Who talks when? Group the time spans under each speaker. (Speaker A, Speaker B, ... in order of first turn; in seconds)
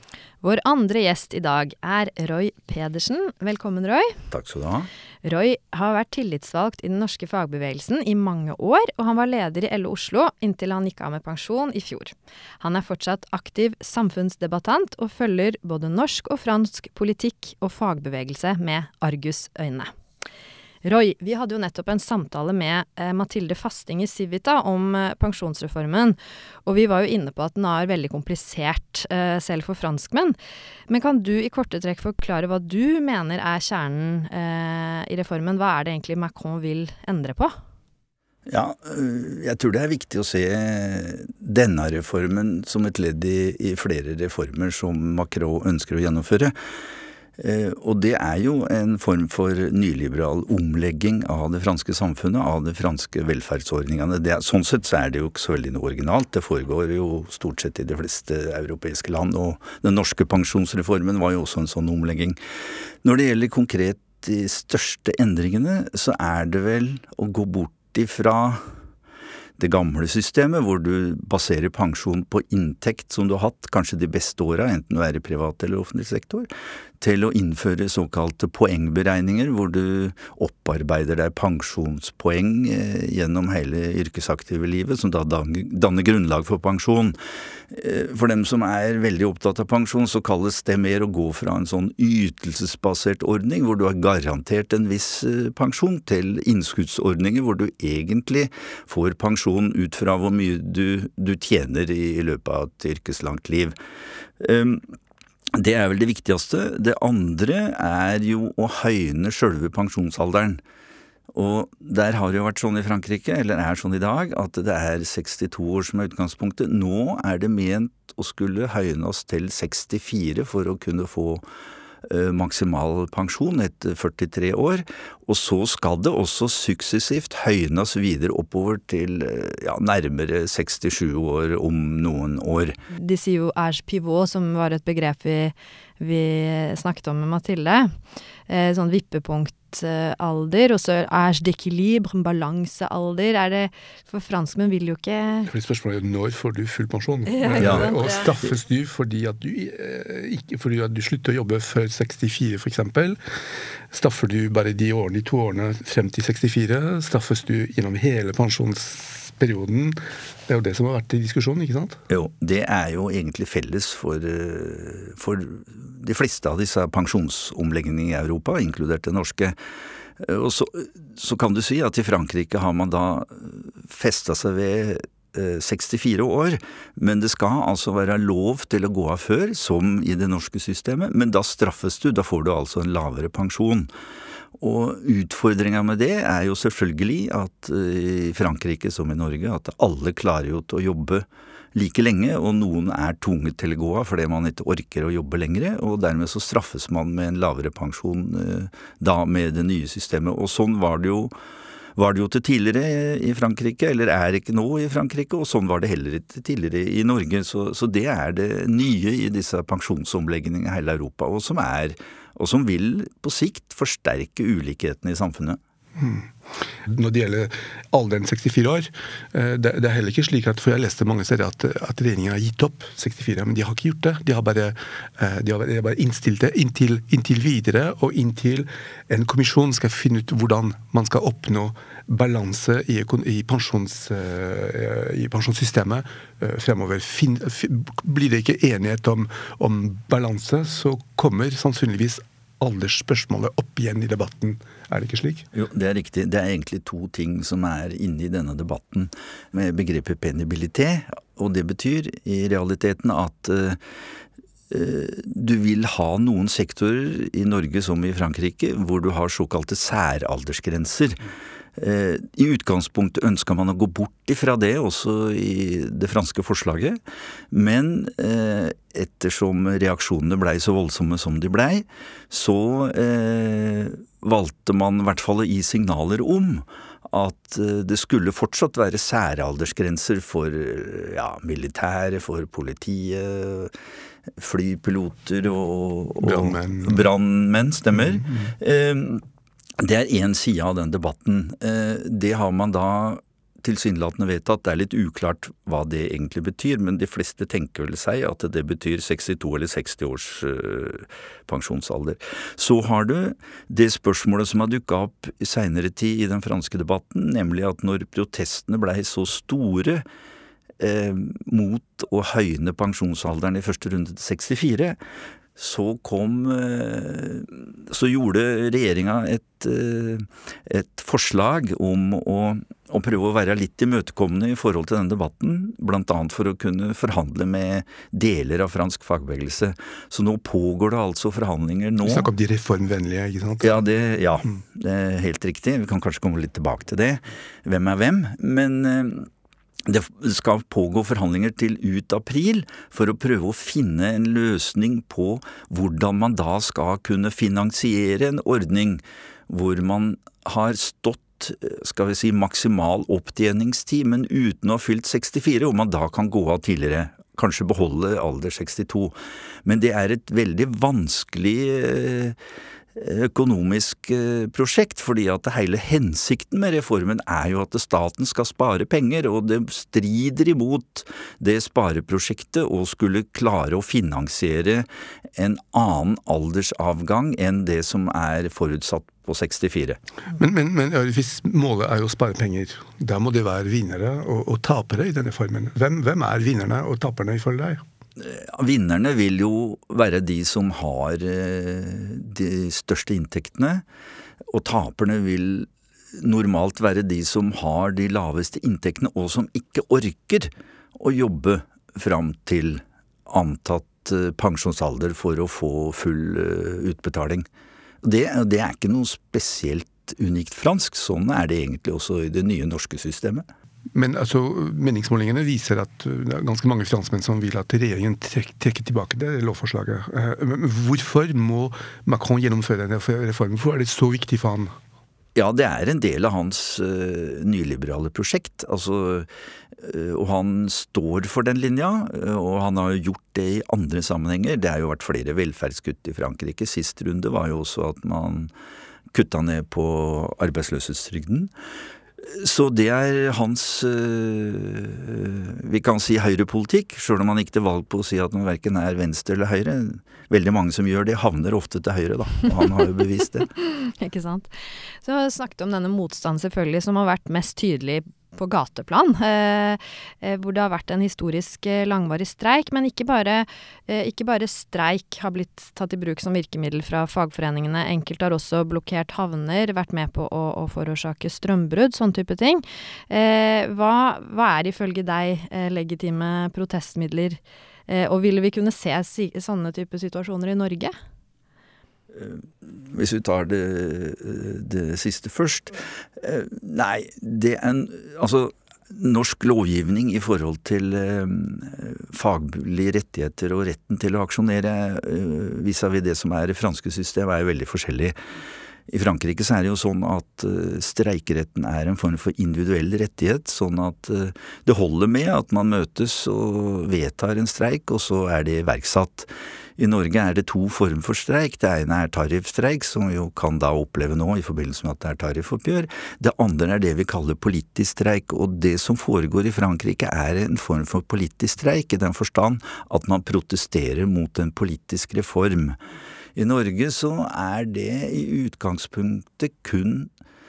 Speaker A: 0.4-4.2, 5.2-19.9, 20.8-30.4, 30.9-37.5, 132.9-137.9, 138.5-145.5, 147.3-148.3, 453.6-454.5, 455.0-480.9
Speaker B: 4.3-4.9, 38.5-46.5, 47.4-62.4, 63.0-68.6, 69.6-76.5, 77.0-87.2, 87.7-103.7, 104.4-104.9, 105.5-110.6, 111.3-121.4, 122.0-132.8, 147.6-147.9, 162.1-169.6, 170.2-183.9, 184.6-201.3, 201.9-215.6, 245.5-253.8, 254.7-261.2, 261.8-267.0, 267.5-283.7, 284.4-289.2, 289.8-310.0, 310.8-315.0, 315.6-332.3, 333.6-339.3, 339.9-359.1, 359.6-362.4, 362.9-380.0, 388.2-393.8, 394.5-407.4, 408.0-413.4, 425.4-438.5, 439.1-441.5, 442.2-453.5, 482.1-498.2, 498.9-525.8, 526.4-530.1
Speaker C: 145.5-153.2, 153.9-162.0, 215.9-245.5, 286.2-287.1, 287.9-288.5, 332.0-333.8, 380.3-387.8, 413.9-424.7